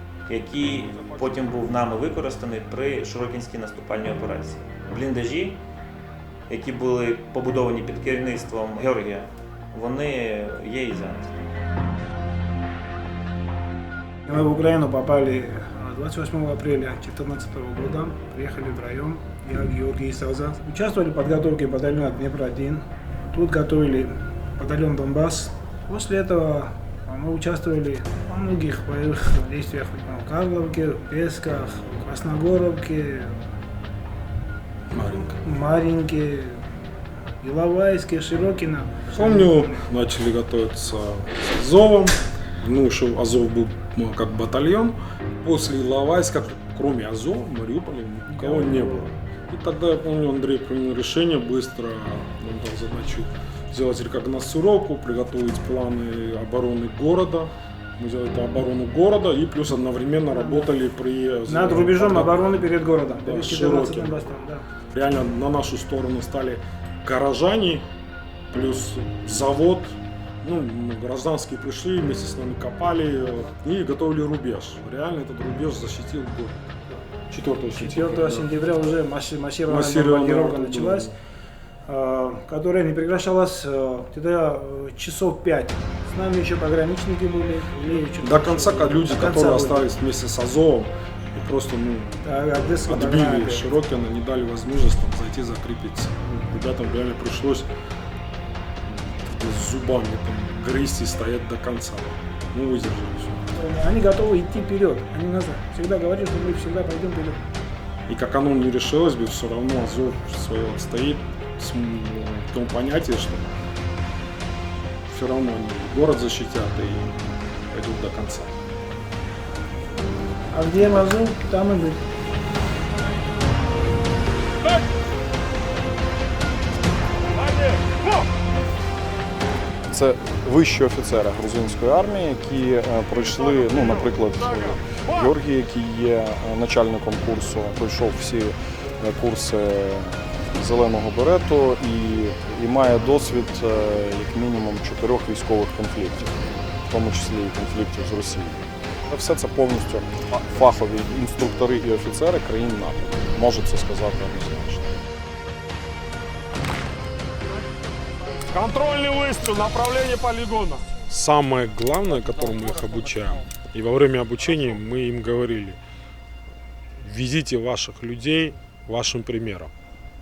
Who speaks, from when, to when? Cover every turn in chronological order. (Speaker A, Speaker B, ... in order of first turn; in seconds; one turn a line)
Speaker A: 0.3-5.6
Speaker B: 0.9-1.5
Speaker A: 6.6-11.3
Speaker C: 14.3-33.4
Speaker B: 34.9-35.4
Speaker C: 35.4-36.6
Speaker C: 37.4-39.8
Speaker B: 39.1-64.2
Speaker C: 48.3-49.1
Speaker C: 60.3-60.7
Speaker C: 61.5-64.7
Speaker B: 64.9-67.9
Speaker B: 68.5-76.6
Speaker B: 77.3-78.5
Speaker C: 77.7-81.1
Speaker B: 79.7-81.2
Speaker C: 81.9-89.9
Speaker B: 88.2-92.2
Speaker C: 92.2-93.8
Speaker B: 92.8-97.7
Speaker B: 98.9-103.4
Speaker C: 103.5-107.4
Speaker B: 108.1-113.5
Speaker B: 115.1-117.2
Speaker B: 117.7-118.6
Speaker C: 120.5-122.0
Speaker B: 127.5-128.2
Speaker D: 129.9-155.0
Speaker B: 133.2-135.2
Speaker B: 158.5-165.8
Speaker B: 167.0-169.7